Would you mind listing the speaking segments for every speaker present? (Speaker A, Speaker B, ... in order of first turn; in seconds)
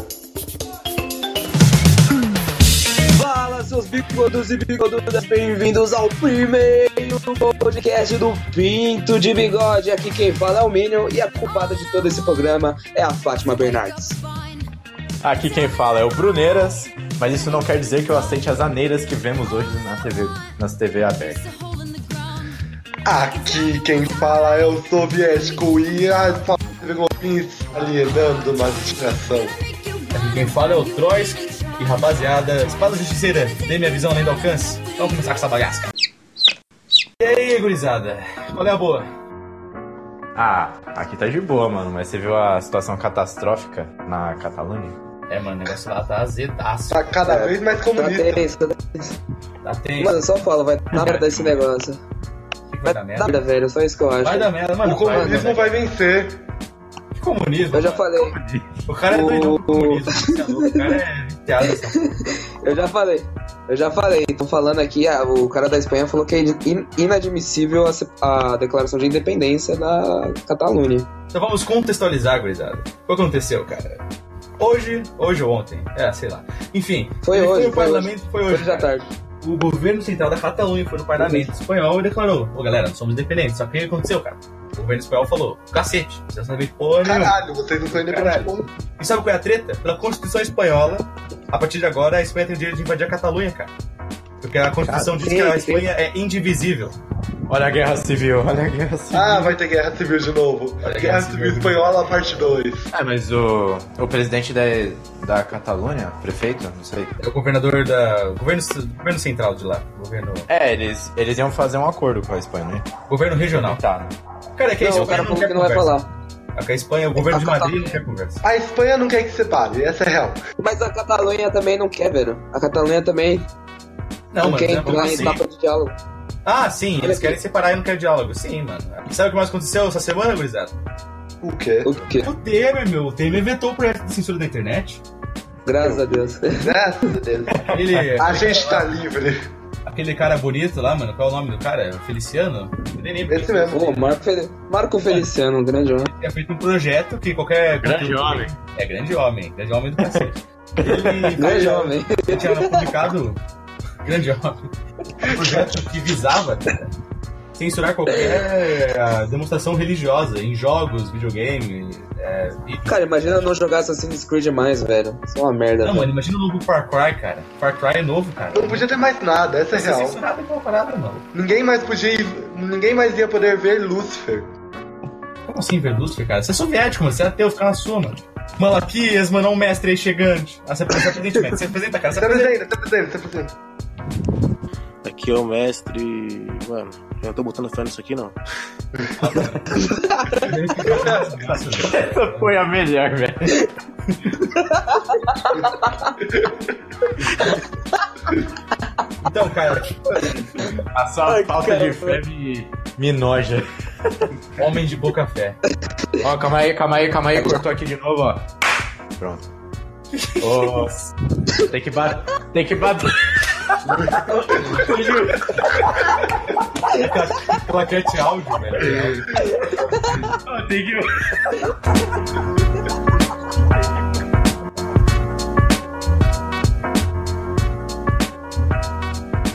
Speaker A: 3.1-14.2, 47.3-49.2, 50.0-52.0, 52.9-54.5, 55.1-55.4, 57.7-58.4, 59.1-60.8, 61.7-71.1, 77.2-79.1, 81.2-81.5, 94.9-95.9, 114.8-116.1, 117.2-118.0, 120.6-123.5, 124.4-126.0, 127.0-127.4, 131.8-132.3, 135.7-136.7, 143.7-146.1, 151.4-152.9, 162.9-166.1, 189.8-190.5, 194.4-196.1, 201.3-202.2, 207.3-207.6, 219.9-220.2
Speaker B: 15.2-21.4, 40.4-45.0, 58.2-58.7, 97.5-99.6, 102.9-107.2, 110.5-112.9, 113.5-114.2, 137.5-138.2, 147.8-148.5, 150.0-151.4, 191.7-193.7, 200.9-204.3, 206.2-208.5, 209.2-209.4, 210.4-211.0, 211.6-215.5, 220.4-221.7
Speaker C: 23.1-29.6, 46.9-48.4, 54.8-56.4, 87.0-88.8, 99.1-102.9, 118.4-120.4, 131.4-131.9, 135.8-139.5, 143.3-143.9, 155.3-155.6, 168.5-170.2, 171.3-174.5, 182.2-183.6, 196.2-196.6, 213.9-214.8, 218.8-219.8
Speaker D: 30.1-35.9, 37.2-39.1, 45.3-47.1, 49.6-50.3, 50.9-51.6, 52.7-53.4, 54.2-55.9, 57.1-58.1, 58.9-62.0, 71.3-74.0, 74.6-78.9, 79.4-87.3, 87.9-93.7, 94.4-97.0, 100.8-102.6, 107.2-110.5, 113.1-113.8, 114.6-116.0, 116.5-118.4, 124.3-125.4, 126.5-130.8, 132.2-135.0, 137.7-139.0, 139.9-144.1, 146.0-153.4, 154.0-154.7, 155.2-156.9, 157.6-163.5, 165.8-168.9, 169.7-171.3, 175.4-182.6, 189.2-192.5, 199.2-200.7, 204.6-205.6, 216.9-219.3
Speaker E: 185.0-188.4